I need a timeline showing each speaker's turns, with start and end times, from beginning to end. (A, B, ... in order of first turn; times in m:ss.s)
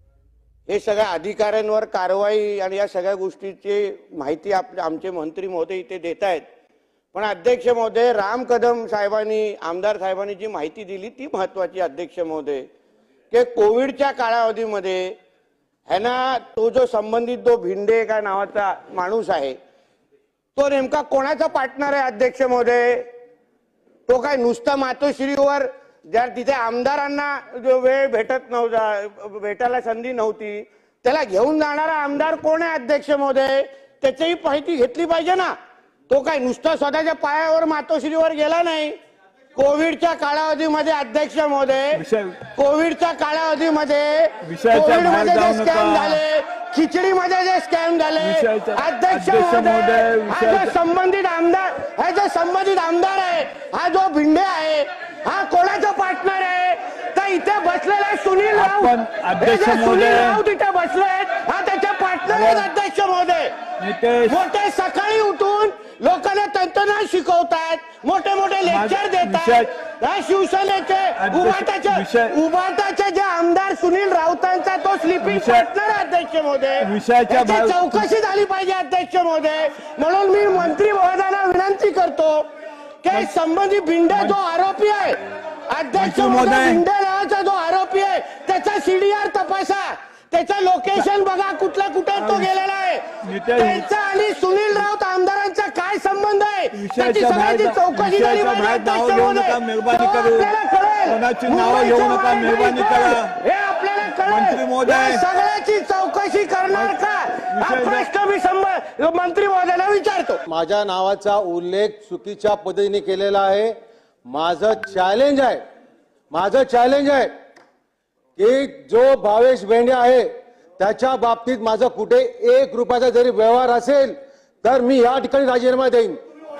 0:00.7-0:06.4 A
0:07.1-0:12.7 A
0:13.3-0:15.1 A
0:15.9-0:19.6 A
0:20.5-0:23.1 A
0:24.1-0:35.5 A
0:36.1-0:38.9 A
0:39.5-0:42.0 A
0:41.9-0:42.4 B
0:42.5-1:03.5 A
0:44.4-0:46.2 B
0:48.2-0:50.7 B
0:58.5-1:00.4 B
1:02.3-1:02.6 B
1:03.8-1:04.4 B
1:04.3-1:22.4 A
1:08.6-1:09.7 B
1:11.2-1:12.3 B
1:15.2-1:15.7 B
1:16.8-1:18.0 B
1:23.0-1:50.4 A
1:24.1-1:24.4 B
1:26.0-1:26.8 B
1:32.2-1:32.5 B
1:33.2-1:33.8 B
1:36.7-1:40.5 B
1:41.0-1:43.4 B
1:44.2-1:45.2 B
1:47.5-1:48.1 B
1:50.5-1:53.7 C
1:54.3-1:55.6 C
1:56.3-1:57.3 C
1:58.4-2:06.2 C